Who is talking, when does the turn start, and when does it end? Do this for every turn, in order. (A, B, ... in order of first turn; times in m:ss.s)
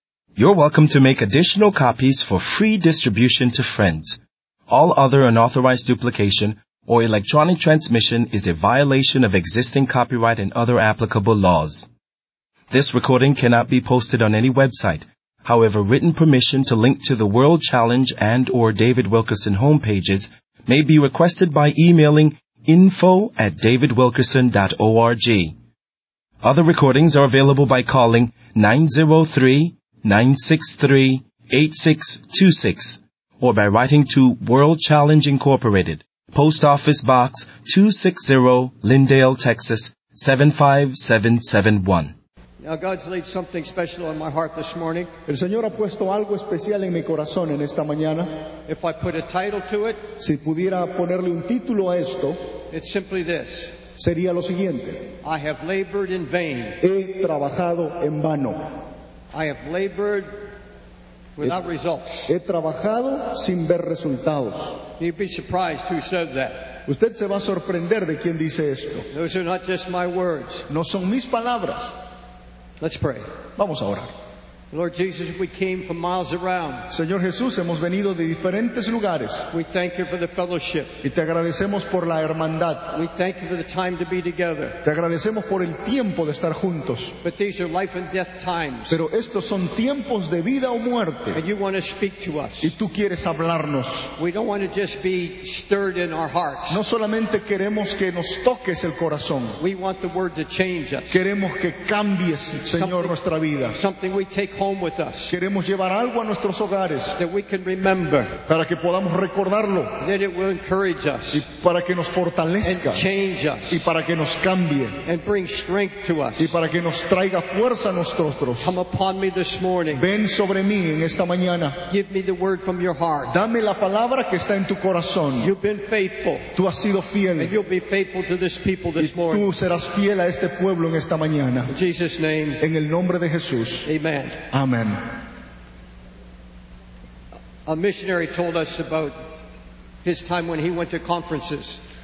0:00.4-0:04.2 A
0:04.7-0:11.9 A
0:12.7-0:25.5 A
0:26.4-0:42.1 A
0:42.6-0:45.1 B
0:45.3-0:48.3 C
0:48.7-0:50.1 B
0:50.2-0:52.5 C
0:52.7-0:53.7 B
0:54.0-0:55.1 C
0:55.2-0:56.8 B
0:56.8-0:58.8 C
0:59.3-1:00.5 B
1:01.4-1:02.3 B
1:02.3-1:04.8 C
1:05.0-1:06.8 B
1:06.9-1:09.0 C
1:09.1-1:10.7 B
1:10.7-1:11.9 C
1:12.8-1:13.3 B
1:13.6-1:14.1 C
1:14.7-1:16.9 B
1:16.9-1:19.5 C
1:19.5-1:21.0 B
1:21.0-1:23.0 C
1:22.9-1:24.8 B
1:24.8-1:27.1 C
1:27.2-1:29.0 B
1:28.9-1:31.4 C
1:31.3-1:32.7 B
1:32.6-1:34.1 C
1:34.2-1:36.8 B
1:36.7-1:39.6 C
1:39.6-1:41.2 B
1:41.1-1:43.8 C
1:42.7-1:43.1 B
1:43.7-1:45.3 B
1:45.3-1:47.2 C
1:47.2-1:48.4 B
1:48.5-1:50.0 C
1:50.0-1:51.4 B
1:51.3-1:53.0 C
1:52.6-1:53.8 B
1:53.7-1:55.0 C
1:55.0-1:56.5 B
1:56.4-1:58.7 C
1:58.6-2:00.0 B
1:59.9-2:01.8 C
2:01.9-2:03.4 B
2:03.3-2:05.5 C
2:05.4-2:06.5 B
2:06.5-2:07.5 C
2:07.4-2:09.5 B
2:09.0-2:11.7 C
2:11.7-2:12.6 B
2:12.6-2:13.9 C
2:13.8-2:14.4 B
2:14.5-2:15.1 C
2:17.6-2:19.2 B
2:20.0-2:21.8 B